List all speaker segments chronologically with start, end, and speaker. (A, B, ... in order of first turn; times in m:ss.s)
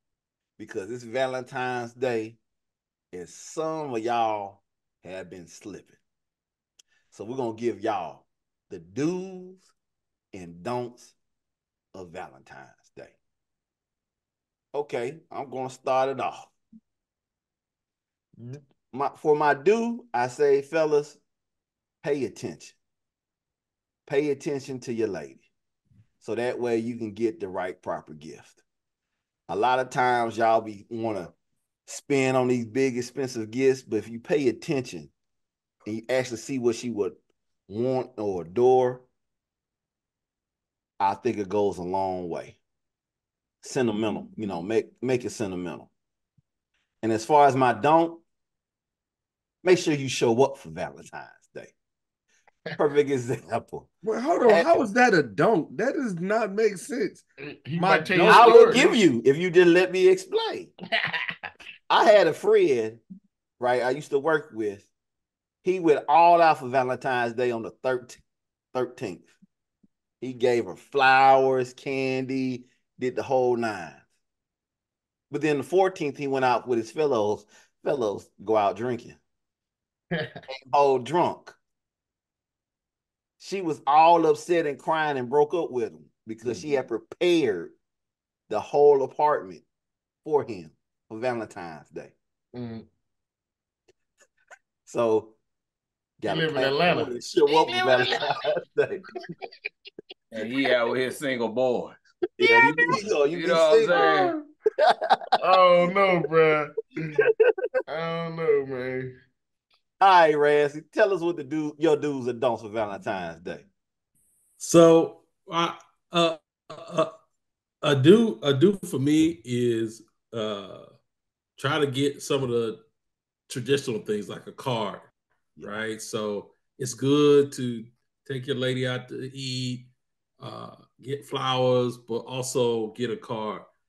0:00.6-0:02.4 A
0:03.1-0:06.0 A
0:07.1-0:09.7 A
0:10.3-0:11.1 A
0:11.9-0:13.1 A
0:14.7-0:16.5 A
0:18.4-0:21.2 A
0:22.0-0:22.8 A
0:24.0-0:25.4 A
0:26.2-0:28.6 A
0:29.5-0:31.3 A
0:31.9-0:35.1 A
0:35.8-0:37.2 A
0:37.7-0:39.0 A
0:41.0-0:42.6 A
0:43.6-0:45.9 A
0:47.0-0:48.2 A
0:49.6-0:51.7 A
0:52.8-0:53.9 A
0:54.0-0:57.2 B
0:54.4-0:54.8 A
0:57.4-0:59.0 C
0:57.8-0:58.8 B
0:58.2-1:00.7 A
1:01.9-1:03.0 A
1:03.6-1:04.9 A
1:05.6-1:08.2 A
1:08.7-1:09.3 A
1:10.2-1:14.0 A
1:15.3-1:19.2 A
1:20.5-1:21.6 A
1:23.4-1:27.7 A
1:28.5-1:29.6 A
1:30.2-1:32.1 A
1:32.5-1:32.8 C
1:34.8-1:35.4 A
1:36.2-1:39.0 A
1:36.2-1:38.1 C
1:40.3-1:42.0 D
1:42.4-1:44.1 A
1:43.3-1:44.4 D
1:43.9-1:44.4 C
1:44.8-1:45.2 A
1:45.4-1:46.7 C
1:47.9-1:49.1 C
1:50.0-1:53.6 A
1:54.6-1:57.1 E
1:57.8-2:00.9 E
2:01.6-2:02.8 E
2:03.5-2:13.7 E